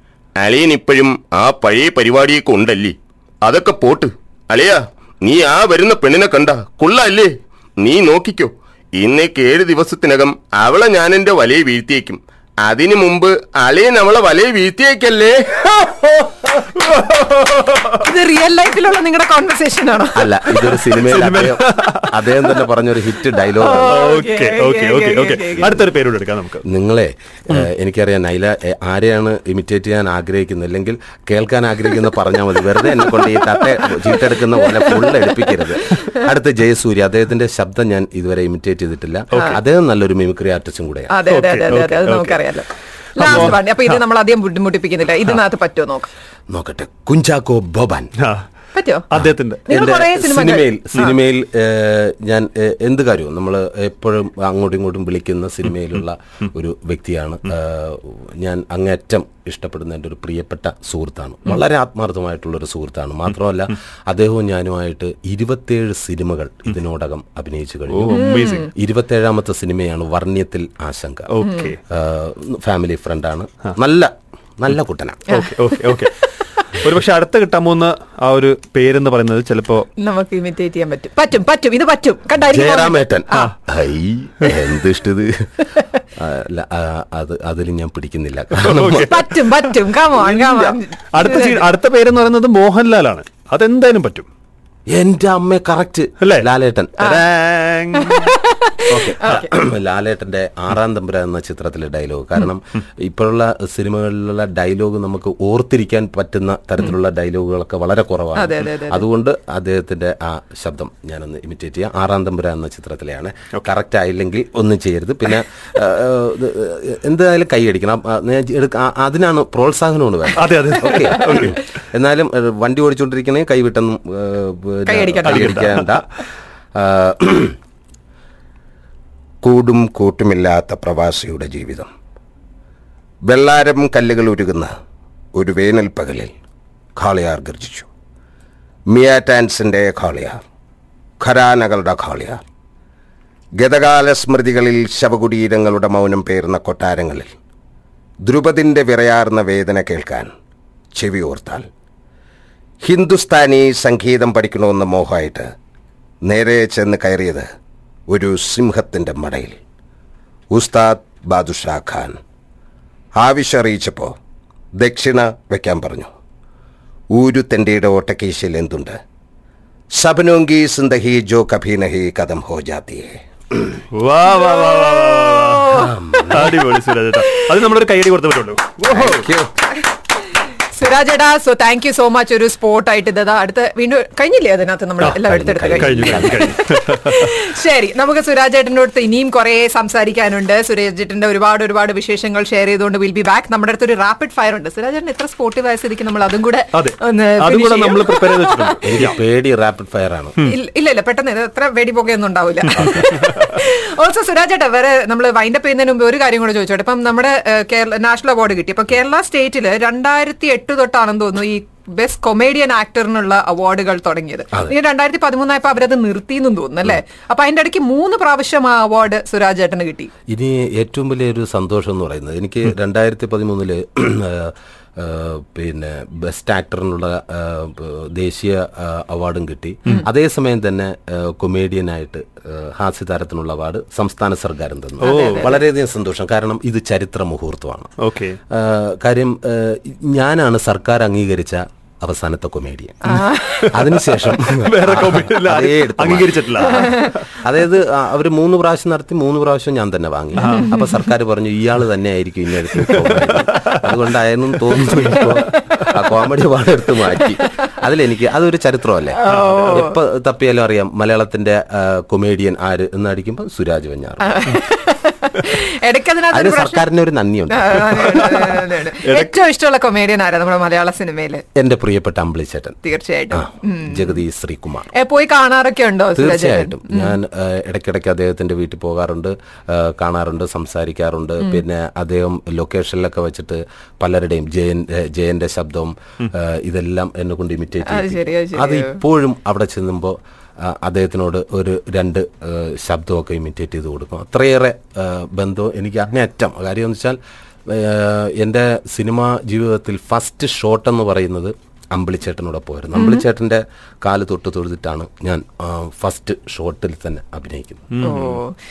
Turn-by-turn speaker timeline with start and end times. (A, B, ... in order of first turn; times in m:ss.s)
0:00.4-0:16.3 A
0:16.7-0:18.0 B
0:18.0-0:20.3 C
0:20.2-0:24.0 D
0:20.9-0:22.6 B
0:23.6-0:25.8 C
0:23.9-0:26.6 B
0:26.7-0:41.1 D
0:33.0-0:33.9 C
0:34.4-0:36.1 C
0:41.1-0:46.1 C
0:41.3-0:42.4 B
0:43.2-0:44.0 B
0:46.5-0:48.1 D
0:48.7-0:49.1 C
0:49.1-0:50.0 B
0:49.7-0:51.1 C
0:50.0-1:11.3 D
1:07.9-1:08.7 B
1:08.1-1:08.7 C
1:11.3-1:11.8 B
1:11.4-1:11.7 C
1:11.9-1:15.4 D
1:15.3-1:15.6 C
1:15.4-1:16.1 B
1:16.8-1:19.9 B
1:20.0-1:23.5 C
1:22.5-1:25.5 D
1:26.2-1:29.2 D
1:28.6-1:34.3 B
1:29.0-1:31.7 C
1:34.9-1:37.0 D
1:36.2-1:36.5 B
1:37.0-1:38.4 B
1:37.9-1:39.5 C
1:38.9-1:39.4 B
1:39.5-2:06.1 D
1:48.4-1:49.0 C
2:00.4-2:01.6 B
2:04.9-2:05.7 C
2:05.3-2:05.8 B
2:06.8-2:07.6 D
2:09.4-2:11.9 D
2:13.3-2:14.7 D
2:15.4-2:16.3 D
2:17.0-2:17.9 D
2:18.9-2:20.4 D
2:21.2-2:22.4 D
2:23.6-2:27.3 D
2:28.2-2:30.3 D
2:31.0-2:31.7 D
2:32.8-2:35.5 D
2:36.3-2:37.5 D
2:38.1-2:39.6 D
2:40.5-2:42.2 D
2:43.2-2:44.2 D
2:44.8-2:46.1 D
2:47.1-2:49.0 D
2:49.9-2:53.7 D
2:53.9-2:59.2 B
2:54.6-2:55.8 C
2:55.7-2:56.7 D
2:58.9-2:59.5 D
3:00.7-3:19.0 C
3:05.0-3:06.5 D
3:05.8-3:07.3 B
3:16.7-3:19.2 B
3:18.8-3:20.4 D
3:20.4-3:40.1 C
3:22.8-3:23.4 B
3:40.3-3:57.9 D
3:55.0-3:55.5 B
3:55.0-3:55.6 C
3:58.0-3:58.4 B
3:58.5-4:03.0 D
4:03.0-4:03.7 C
4:03.4-4:07.4 B
4:03.7-4:06.9 D
4:07.4-4:24.4 D
4:10.4-4:10.7 C
4:10.4-4:10.7 B
4:13.0-4:13.8 B
4:19.2-4:19.9 C
4:19.3-4:19.6 B
4:24.3-4:26.8 C
4:26.3-4:28.3 D
4:27.5-4:31.4 C
4:28.2-4:28.5 B
4:29.0-4:29.3 B
4:31.6-4:32.8 D
4:32.8-4:34.0 C
4:33.3-4:34.9 D
4:34.9-4:37.2 C
4:36.2-5:07.9 D
4:47.8-4:49.0 C
5:03.0-5:03.2 C
5:07.9-5:08.4 B
5:08.0-5:08.5 C